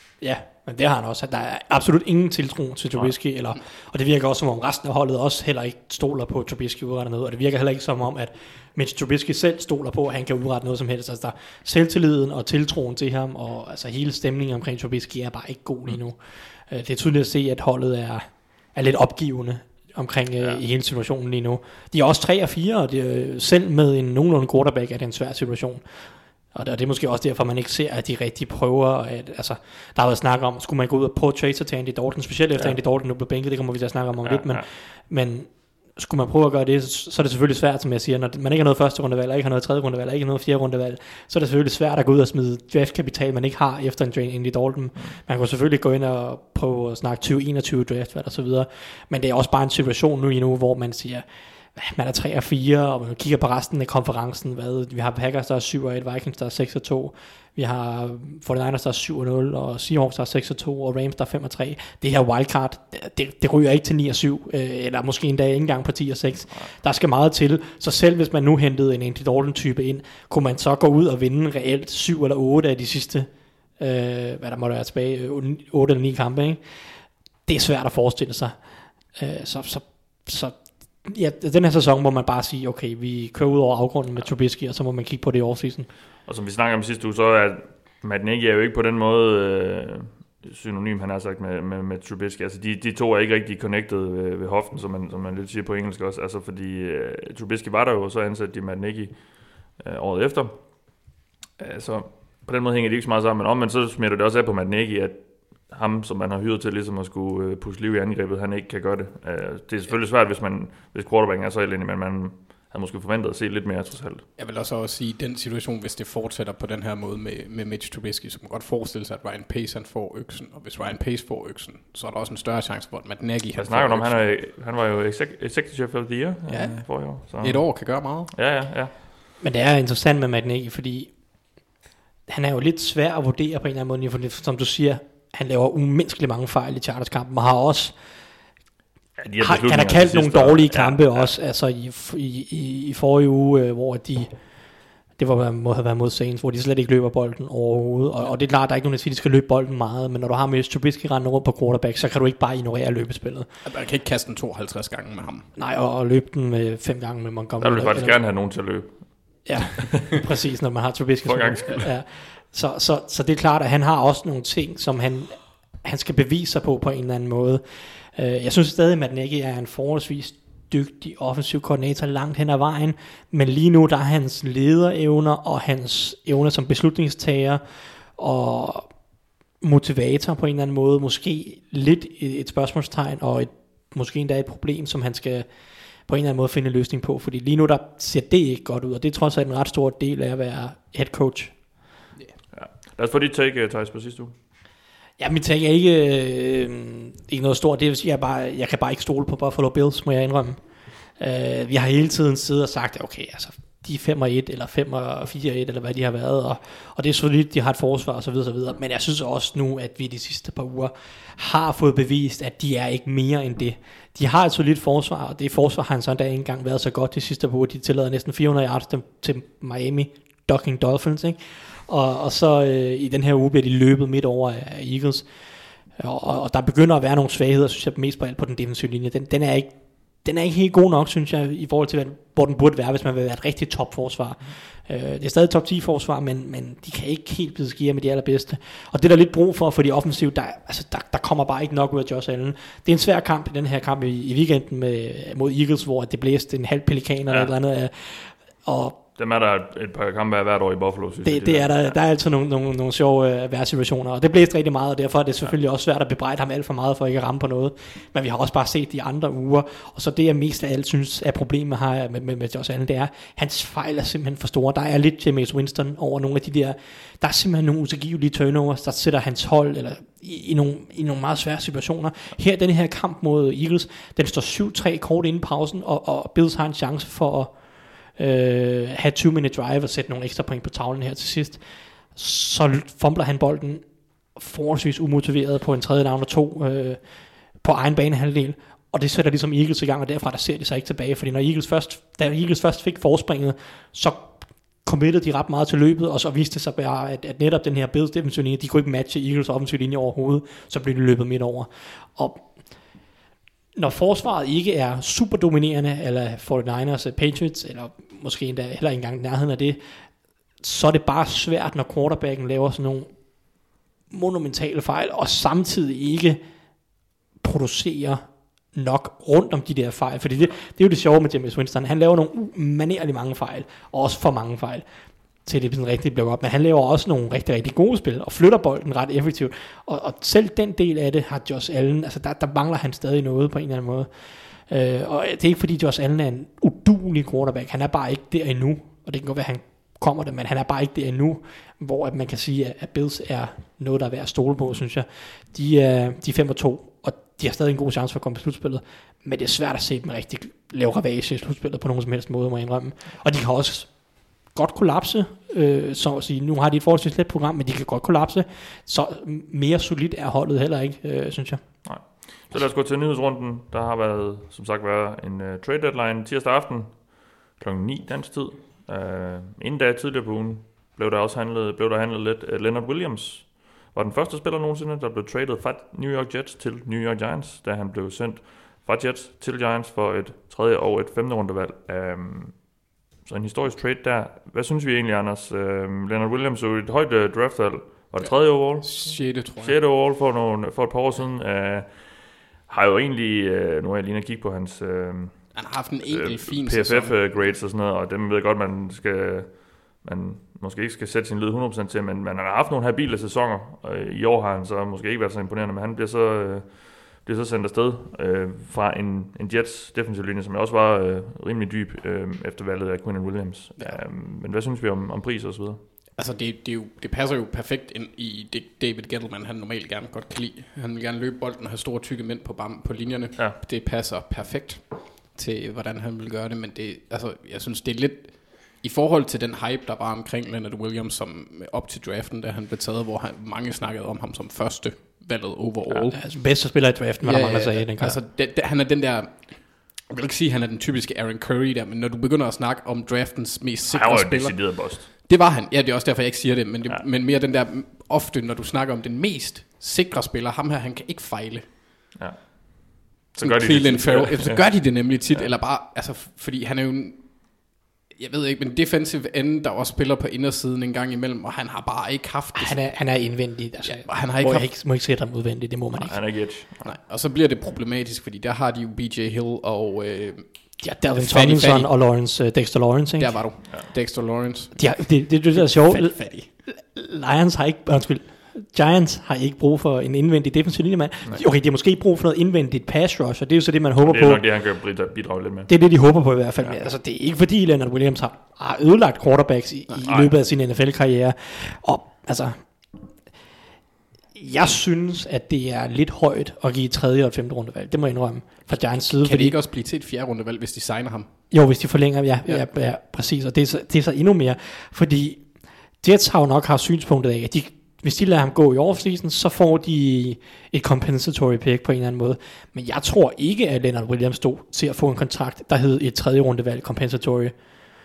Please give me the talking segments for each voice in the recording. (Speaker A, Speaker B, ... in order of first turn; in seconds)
Speaker A: 0.2-76.6, 77.5-85.9, 129.4-131.2, 132.3-138.0, 139.4-144.3, 145.2-153.5, 155.6-158.2, 159.4-179.0, 179.6-185.5, 186.1-191.6, 195.2-225.3, 225.9-249.0, 251.2-302.6, 303.8-309.8, 310.6-313.3, 314.1-316.4, 317.4-324.9, 325.4-362.6, 436.1-438.2, 462.6-466.2, 470.8-473.5, 474.8-484.4, 485.7-492.8, 494.4-499.6, 501.5-517.5
Speaker B: 34.2-34.6, 86.2-101.0, 101.6-114.2, 123.6-128.9, 139.2-141.3, 157.6-159.9, 161.2-161.9, 192.5-194.3, 247.3-247.5, 249.2-252.0, 361.8-415.8, 443.9-445.1, 452.2-455.5, 466.0-466.9, 484.0-485.8
Speaker C: 114.4-124.3, 126.5-128.3, 153.6-155.5, 388.2-389.8, 395.5-397.5, 416.2-436.2, 437.2-451.8, 453.4-463.1, 463.8-464.7, 466.8-471.9, 473.2-476.5, 489.9-490.3, 499.0-501.3